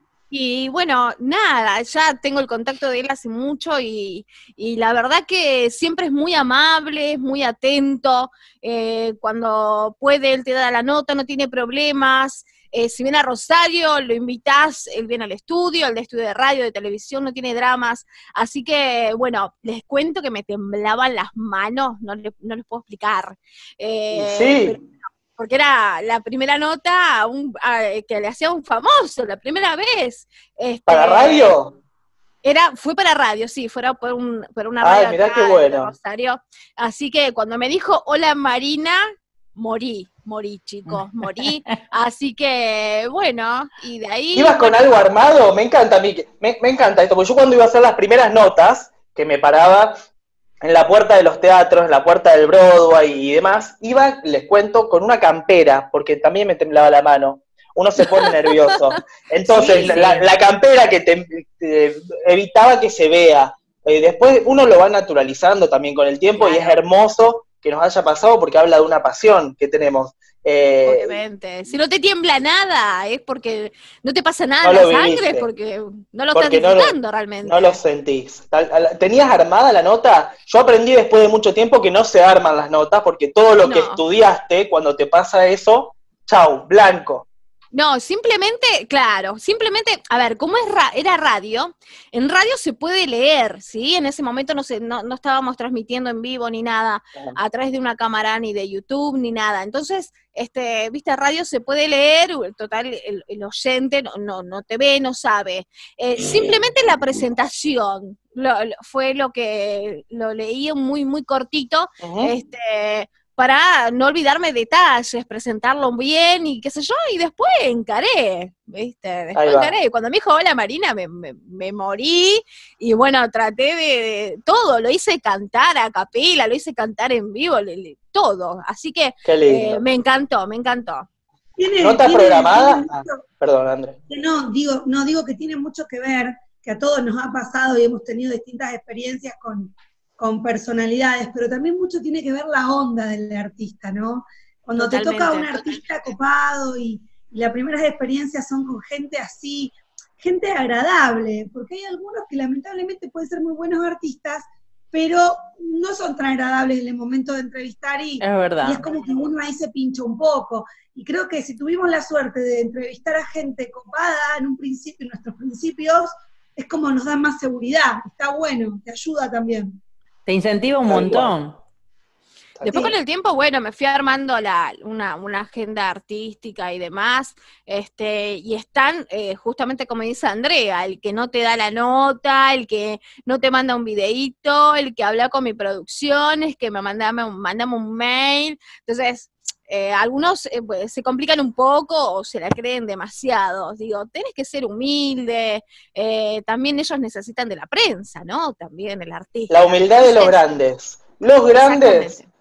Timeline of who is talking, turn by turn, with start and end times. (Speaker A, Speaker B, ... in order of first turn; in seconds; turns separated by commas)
Speaker A: 0.3-31.6, Speaker B: 24.1-24.8, Speaker B: 30.9-31.7, Speaker A: 32.4-45.0, Speaker B: 34.8-35.9, Speaker C: 40.9-41.8, Speaker B: 44.3-50.0, Speaker B: 50.6-71.2, Speaker A: 58.0-58.3, Speaker A: 59.5-60.3, Speaker A: 66.3-66.8, Speaker A: 70.8-77.8, Speaker B: 74.6-75.5, Speaker B: 76.3-87.2, Speaker A: 83.6-84.0, Speaker A: 87.7-131.1, Speaker B: 106.2-106.5, Speaker B: 112.0-112.3, Speaker B: 119.3-119.8, Speaker B: 129.2-129.8, Speaker D: 131.6-133.2, Speaker B: 131.8-134.0, Speaker D: 134.1-169.8, Speaker A: 144.8-145.8, Speaker C: 158.2-158.8, Speaker C: 170.2-171.6, Speaker B: 170.9-171.3, Speaker B: 172.6-172.9, Speaker A: 172.6-200.6, Speaker B: 199.5-202.2, Speaker A: 201.5-202.3